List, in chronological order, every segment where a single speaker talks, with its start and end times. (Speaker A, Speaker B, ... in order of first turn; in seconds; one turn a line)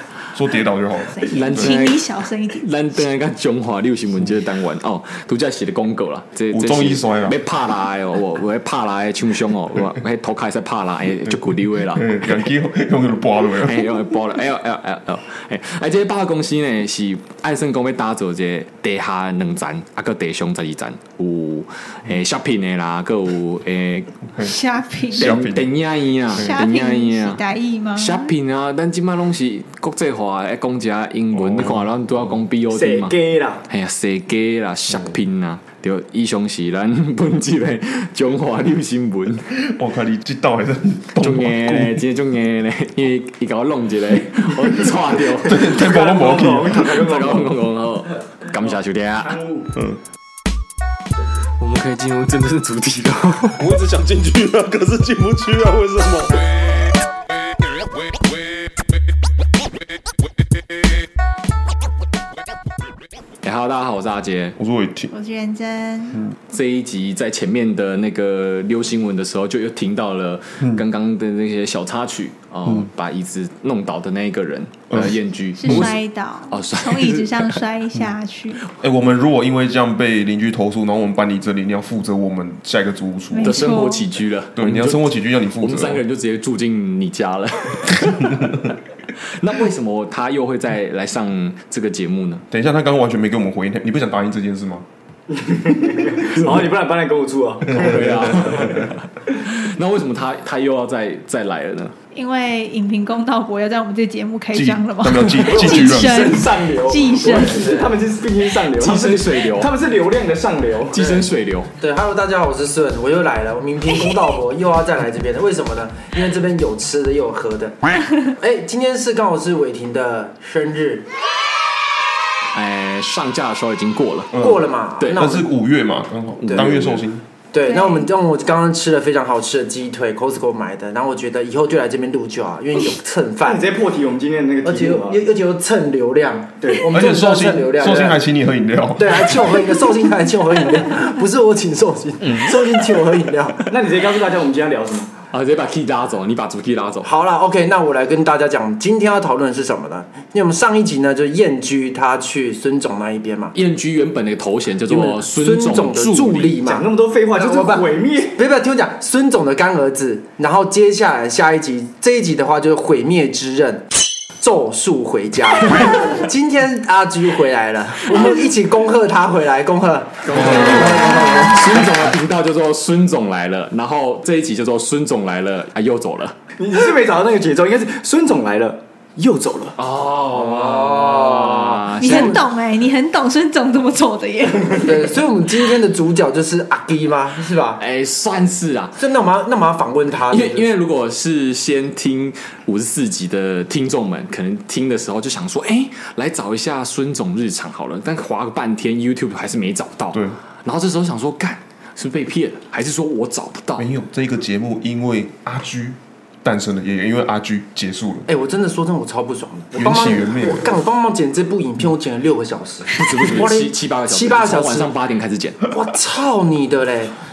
Speaker A: 0.3-1.8
Speaker B: 1.1-2.6
Speaker C: 1.3-12.5
Speaker A: 6.5-7.4
Speaker A: 11.3-13.9
Speaker C: 13.6-24.1
Speaker A: 24.3-24.6
Speaker B: 24.4-25.4
Speaker A: 25.1-25.6
Speaker C: 25.2-27.4
Speaker A: 26.3-26.6
Speaker B: 26.3-28.3
Speaker C: 27.9-33.1
Speaker A: 31.3-31.9
Speaker D: 32.7-33.6
Speaker C: 33.7-39.5
Speaker A: 39.5-42.0
Speaker C: 41.2-45.6
Speaker A: 45.3-47.0
Speaker D: 45.6-47.6
Speaker C: 46.8-49.4
Speaker A: 49.7-50.0
Speaker C: 51.6-53.6
Speaker A: 53.5-56.6
Speaker C: 63.4-64.6
Speaker A: 64.6-65.1
Speaker B: 65.1-66.2
Speaker C: 66.5-77.6
Speaker A: 74.9-75.9
Speaker B: 75.6-78.6
Speaker A: 78.8-83.8
Speaker B: 83.3-84.0
Speaker C: 83.4-92.4
Speaker A: 84.5-86.0
Speaker A: 92.5-94.8
Speaker D: 95.3-98.6
Speaker C: 97.7-102.0
Speaker B: 102.1-107.6
Speaker A: 104.5-106.3
Speaker D: 105.4-111.2
Speaker E: 107.5-107.9
Speaker C: 108.8-109.7
Speaker C: 110.9-111.7
Speaker E: 111.0-111.2
Speaker E: 111.8-121.0
Speaker C: 122.5-124.3
Speaker A: 124.3-124.6
Speaker E: 124.3-125.5
Speaker C: 125.0-125.3
Speaker A: 125.1-127.2
Speaker C: 126.4-127.0
Speaker E: 127.5-133.7
Speaker B: 127.7-128.0
Speaker D: 133.4-135.2
Speaker E: 134.6-138.2
Speaker A: 136.9-139.7
Speaker E: 139.0-143.7
Speaker D: 143.7-145.1
Speaker C: 145.3-147.1
Speaker E: 147.0-153.6
Speaker C: 153.5-156.6
Speaker E: 154.8-163.9
Speaker D: 156.6-158.4
Speaker E: 164.4-171.9
Speaker C: 170.2-176.3
Speaker A: 170.4-170.9
Speaker D: 176.6-179.8
Speaker C: 179.8-182.4
Speaker E: 180.3-182.4
Speaker B: 182.0-185.1
Speaker E: 184.7-187.8
Speaker C: 187.8-189.0
Speaker E: 189.0-190.7
Speaker C: 190.3-203.9
Speaker A: 203.8-208.3
Speaker E: 208.3-214.9
Speaker A: 209.7-210.7
Speaker C: 212.9-215.6
Speaker E: 215.7-217.1